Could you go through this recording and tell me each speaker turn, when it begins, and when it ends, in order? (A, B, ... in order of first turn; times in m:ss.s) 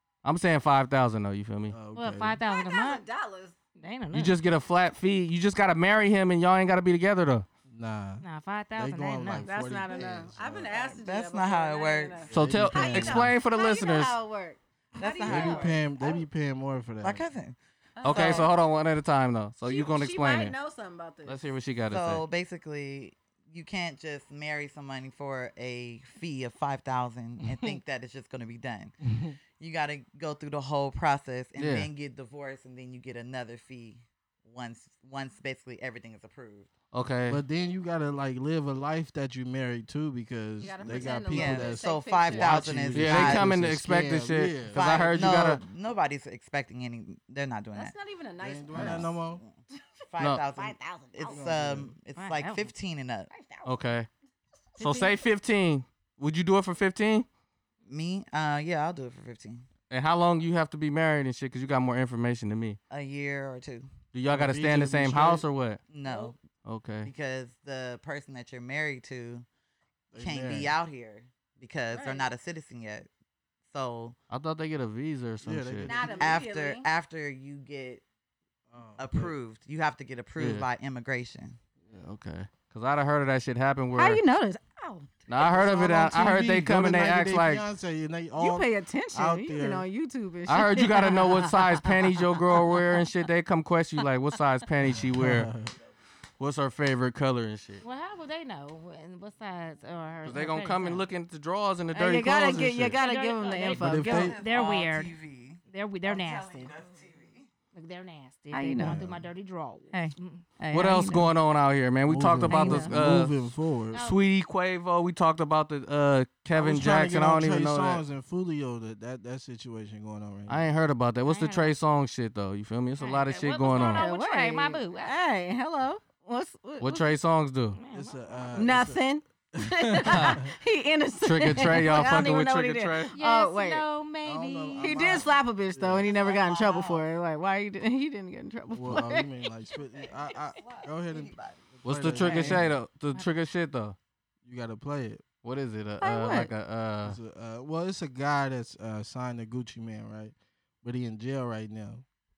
0:00.2-0:01.8 A
0:01.7-0:02.4 B
0:01.9-0:03.0 C
0:02.5-0:03.5 D
0:03.8-0:04.4 C
0:04.1-0:07.4 A
0:07.7-0:08.2 B
0:08.2-0:09.5 C
0:08.8-0:10.7 B
0:09.4-0:16.2 D
0:10.6-0:12.3 E
0:12.3-0:14.2 A
0:12.3-0:13.3 B
0:14.9-0:15.8 E
0:15.2-0:17.2 B
0:17.0-0:18.5 E
0:18.0-0:18.5 D
0:18.0-0:20.5 A
0:19.6-0:21.4 D
0:21.2-0:22.2 A
0:21.9-0:29.0 E
0:29.0-0:29.4 B
0:29.6-0:36.7 E
0:31.6-0:31.9 A
0:36.9-0:37.4 A
0:37.3-0:45.3 B
0:40.6-0:42.7 D
0:40.8-0:43.6 E
0:42.9-0:45.6 A
0:44.7-0:48.0 E
0:47.7-0:49.1 D
0:48.4-0:49.4 B
0:48.8-0:49.6 E
0:50.1-0:53.3 E
0:50.5-0:51.4 D
0:51.3-0:51.9 B
0:52.2-0:52.7 C
0:53.3-0:53.8 D
0:53.6-0:54.1 A
0:54.8-0:55.1 D
0:54.8-0:57.2 A
0:57.9-0:59.6 E
0:59.9-1:02.8 A
1:02.9-1:03.9 E
1:04.1-1:05.8 A
1:04.3-1:05.4 B
1:05.9-1:06.4 E
1:06.1-1:06.3 D
1:06.6-1:07.1 A
1:07.0-1:09.4 E
1:10.1-1:10.7 B
1:10.2-1:13.1 E
1:11.9-1:12.3 D
1:13.7-1:14.2 E
1:14.3-1:15.9 A
1:15.4-1:16.4 B
1:15.8-1:16.9 D
1:16.2-1:18.0 E
1:18.7-1:19.3 B
1:19.0-1:21.6 E
1:20.4-1:20.6 A
1:21.9-1:24.2 A
1:24.0-1:25.1 D
1:25.3-1:27.6 A
1:25.3-1:29.8 B
1:28.4-1:32.7 D
1:30.5-1:35.5 A
1:35.0-1:35.7 B
1:36.4-1:37.8 A
1:37.8-1:41.1 C
1:40.2-1:43.0 A
1:41.9-1:44.3 D
1:43.0-1:45.1 C
1:43.7-1:44.4 B
1:44.1-1:47.5 E
1:45.7-1:46.7 C
1:47.7-1:50.4 C
1:48.5-1:49.0 D
1:48.8-1:49.2 B
1:49.9-1:51.3 D
1:50.7-1:58.0 A
1:52.1-1:54.0 B
1:52.4-1:53.0 D
1:53.9-1:54.2 C
1:56.5-2:00.6 B
2:00.5-2:04.0 A
2:01.2-2:01.7 C
2:03.0-2:05.1 C
2:03.8-2:07.0 D
2:06.8-2:07.8 A
2:07.8-2:08.6 C
2:07.9-2:09.0 B
2:08.6-2:13.8 D
2:09.5-2:10.5 B
2:10.0-2:10.4 A
2:11.2-2:13.1 A
2:13.1-2:15.0 C
2:14.2-2:16.1 B
2:14.8-2:19.3 D
2:16.0-2:17.0 E
2:18.7-2:21.3 B
2:20.0-2:22.5 E
2:21.8-2:22.7 B
2:21.8-2:24.0 A
2:24.4-2:25.2 B
2:25.4-2:27.2 A
2:26.0-2:26.5 D
2:27.0-2:32.0 B